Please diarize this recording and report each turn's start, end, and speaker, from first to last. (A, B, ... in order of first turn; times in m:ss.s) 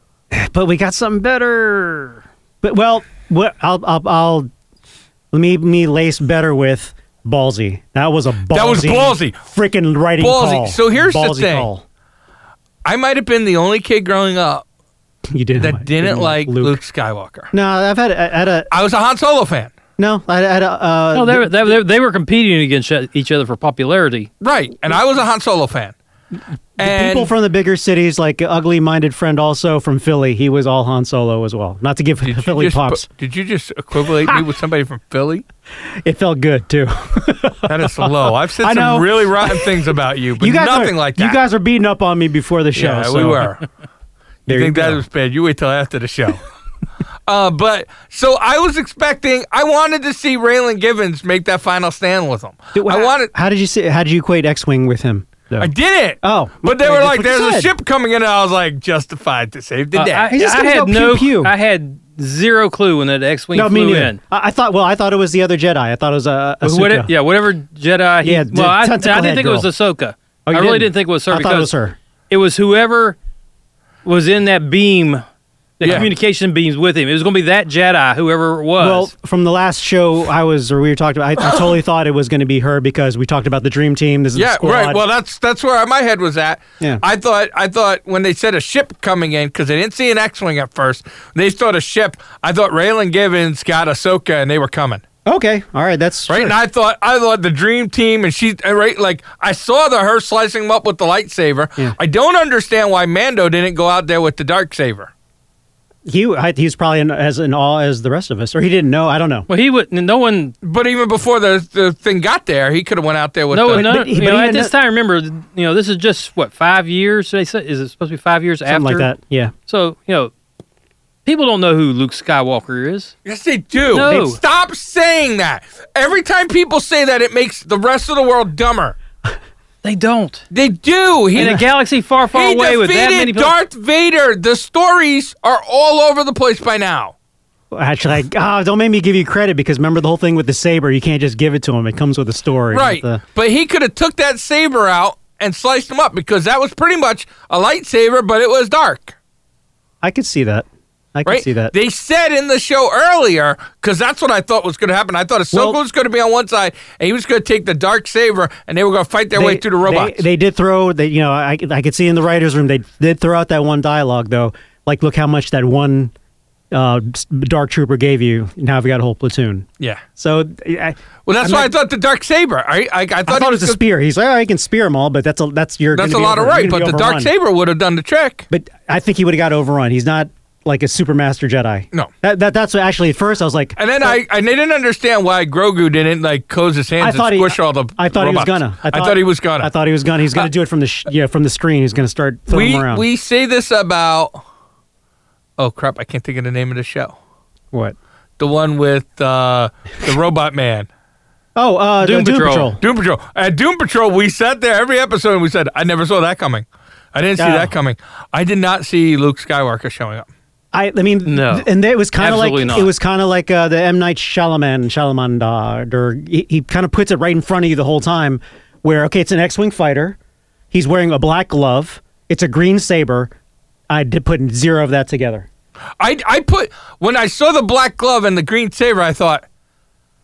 0:00.3-0:04.5 A
0:05.3-0:11.8 A
0:08.5-0:09.4 B
0:10.2-0:11.7 B
0:12.8-0:14.6 B
0:15.3-0:16.8 A
0:15.6-0:17.5 B
0:17.5-0:18.7 A
0:18.7-0:19.7 B
0:20.0-0:21.7 A
0:21.1-0:24.3 C
0:24.4-0:25.9 B
0:26.8-0:27.3 B
0:26.8-0:33.0 A
0:32.2-0:35.4 B
0:35.9-0:43.5 A
0:37.7-0:41.4 B
0:42.7-0:43.6 B
0:44.5-0:45.0 A
0:44.5-0:46.4 B
0:47.3-0:53.3 B
0:52.7-0:55.7 A
0:55.6-1:00.3 B
0:56.2-0:57.7 A
0:59.9-1:04.2 C
1:00.3-1:01.5 A
1:03.5-1:07.1 A
1:06.6-1:11.7 C
1:08.2-1:09.7 A
1:10.4-1:12.0 A
1:12.3-1:13.2 C
1:14.0-1:15.2 C
1:15.8-1:19.1 C
1:15.8-1:16.1 B
1:18.8-1:25.0 A
1:24.3-1:35.0 B
1:35.2-1:36.6 A
1:36.3-1:45.1 B
1:46.0-1:49.5 A
1:49.5-1:50.5 C
1:50.6-1:53.9 B
1:53.5-1:59.1 C
1:53.7-1:54.7 A
1:58.7-1:59.5 A
1:59.7-2:00.3 C
2:01.2-2:03.1 C
2:03.2-2:09.0 B
2:03.9-2:04.4 C
2:09.8-2:10.4 C
2:10.5-2:11.6 B
2:11.3-2:13.5 C
2:11.4-2:11.6 A
2:12.3-2:17.1 B
2:17.7-2:23.2 A
2:22.7-2:29.1 B
2:30.0-2:31.7 A
2:31.2-2:40.2 B
2:35.5-2:35.8 A
2:39.3-2:46.1 A
2:46.7-2:49.6 A
2:50.2-2:51.7 A
2:51.2-2:53.8 B
2:53.2-2:57.3 A
2:55.9-2:58.5 B
2:58.5-3:04.2 A
3:03.8-3:09.7 B
3:07.0-3:13.0 A
3:12.5-3:14.4 B
3:15.6-3:17.2 B
3:18.4-3:20.9 B
3:21.6-3:22.8 A
3:22.0-3:22.8 C
3:22.8-3:30.3 B
3:27.4-3:27.7 A
3:30.7-3:40.2 A
3:31.2-3:32.9 C
3:40.7-3:43.3 A
3:43.9-3:45.5 A
3:46.0-3:49.4 B